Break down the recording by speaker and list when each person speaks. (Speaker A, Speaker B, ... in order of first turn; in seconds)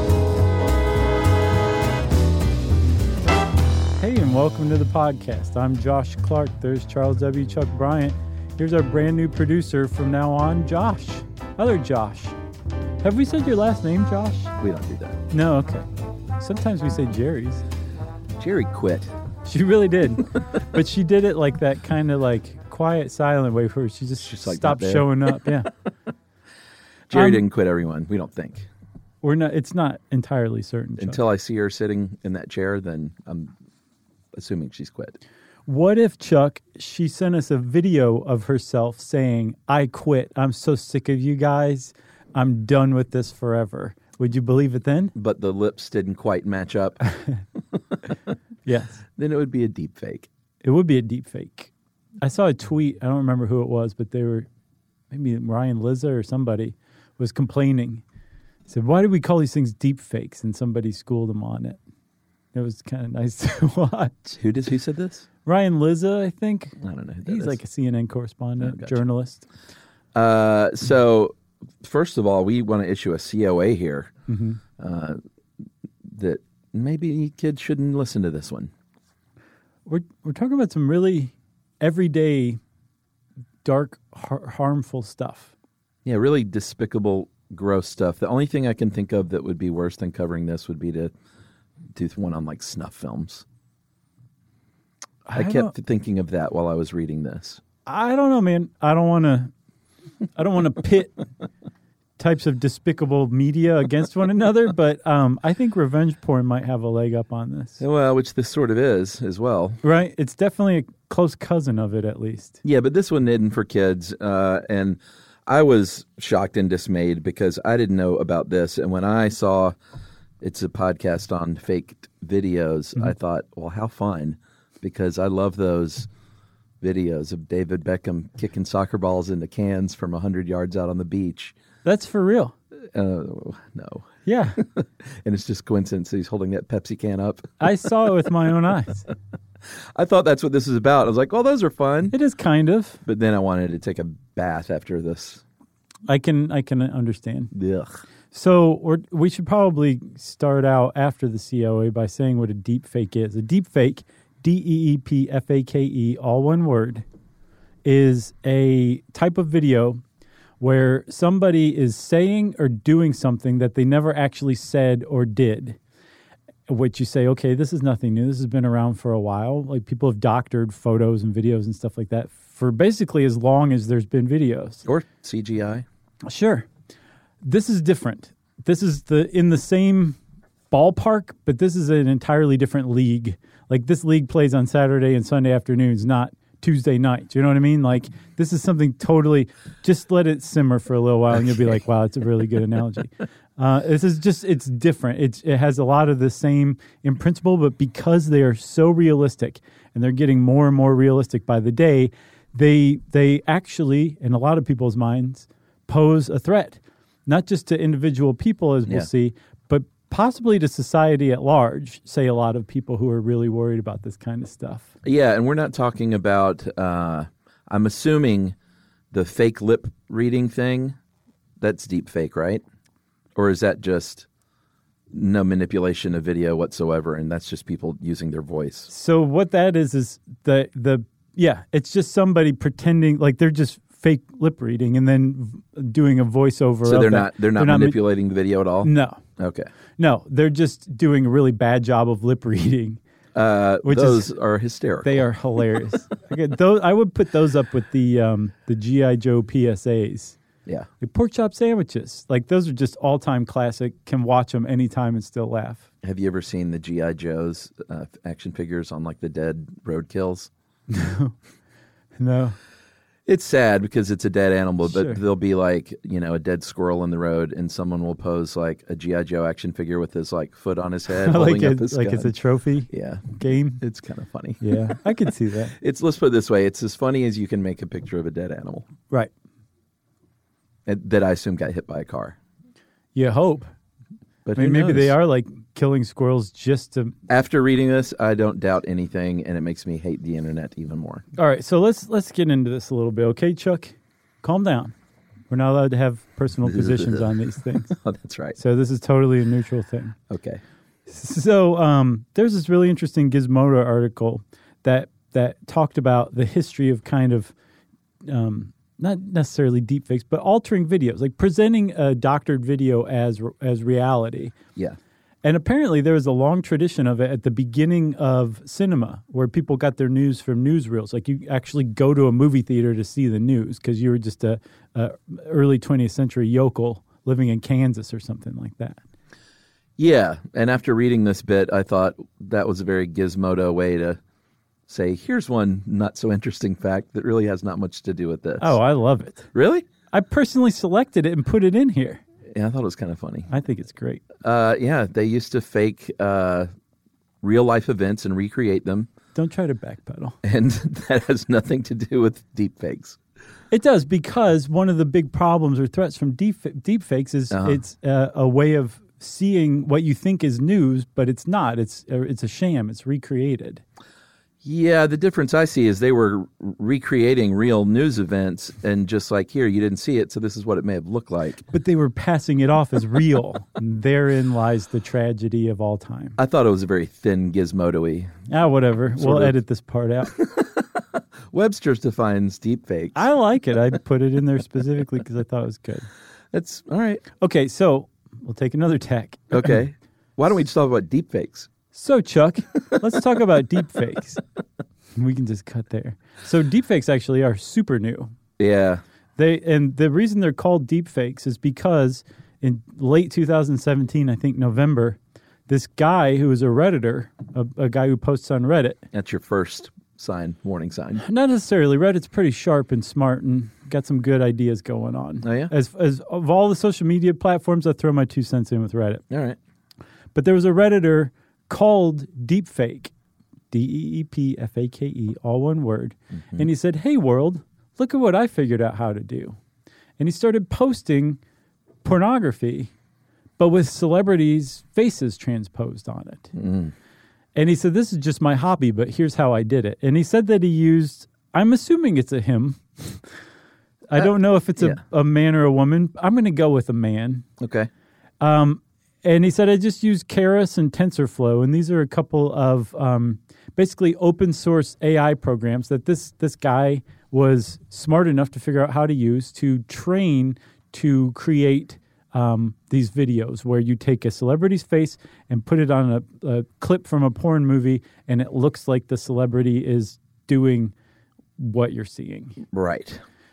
Speaker A: 4.0-12.3, 13.0-14.5, 15.3-15.9, 16.4-17.6, 19.5-25.7, 27.1-27.4, 29.2-31.2, 35.7-45.1, 48.7-49.0, 50.6-51.7, 52.2-54.5, 55.1-58.0, 58.7-61.8, 62.5-64.4, 65.5-69.5, 74.3-74.6, 79.9-82.6, 83.6-85.5, 95.3-95.7, 97.9-99.5, 100.4-101.2, 102.2-107.8, 109.8-112.6, 131.8-132.6, 134.2-134.6, 137.6-139.1, 142.1-143.0, 146.1-147.5, 148.3-157.1, 157.8-160.0, 160.6-165.8, 166.7-174.9, 176.3-176.7, 177.4-180.2, 180.7-214.9, 228.9-238.0, 238.8-239.2, 240.0-243.0, 243.8-244.3, 245.0-250.4, 251.0-255.8, 260.9-261.4, 262.2-262.6, 264.9-265.2, 271.1-273.8, 274.6-275.8, 283.1-283.7, 284.6-287.2, 291.4-294.9, 295.5-297.9, 298.6-300.2, 301.1-307.5, 308.3-314.6, 315.4-329.0, 338.6-339.5, 340.1-342.2, 343.5-344.2, 349.4-350.4, 353.7-363.8, 371.7-376.4, 378.5-380.4, 383.1-386.1, 387.4-389.8, 391.9-394.4, 395.2-398.3, 399.4-409.0, 411.2-419.2, 420.3-423.1, 423.7-429.6, 430.2-431.4, 432.0-432.9, 433.6-436.6, 437.6-443.2, 444.1-447.5, 448.4-470.9, 471.6-472.6
Speaker B: 14.6-15.2, 18.4-19.1, 24.2-25.4, 27.1-28.7, 31.0-33.5, 34.4-35.2, 45.1-47.0, 49.2-50.3, 64.4-65.3, 66.8-67.6, 68.6-69.0, 70.2-74.1, 74.8-75.2, 76.1-78.7, 86.0-91.1, 92.0-93.5, 95.3-97.6, 107.8-109.8, 112.6-119.8, 120.4-126.1, 126.8-131.5, 132.9-134.1, 134.6-137.6, 139.9-142.1, 143.1-145.4, 147.5-148.0, 174.9-175.8, 215.0-218.6, 219.1-221.0, 221.6-222.6, 223.3-224.3, 225.1-228.9, 236.8-239.7, 243.3-245.3, 256.0-260.5, 263.3-272.3, 272.9-275.0, 275.8-278.9, 280.9-282.4, 284.4-285.1, 287.3-291.2, 296.7-297.2, 297.9-298.6, 300.3-300.6, 330.0-334.2, 334.9-338.8, 339.5-339.9, 342.5-343.5, 344.4-346.7, 347.4-349.1, 350.4-353.2, 357.5-357.8, 364.6-371.6, 376.4-378.3, 379.2-379.5, 380.4-380.8, 381.5-383.2, 386.5-387.2, 389.5-391.7, 398.6-399.0, 409.1-411.2, 415.4-415.7, 419.3-419.6, 436.6-436.9, 447.6-447.9, 472.7-473.2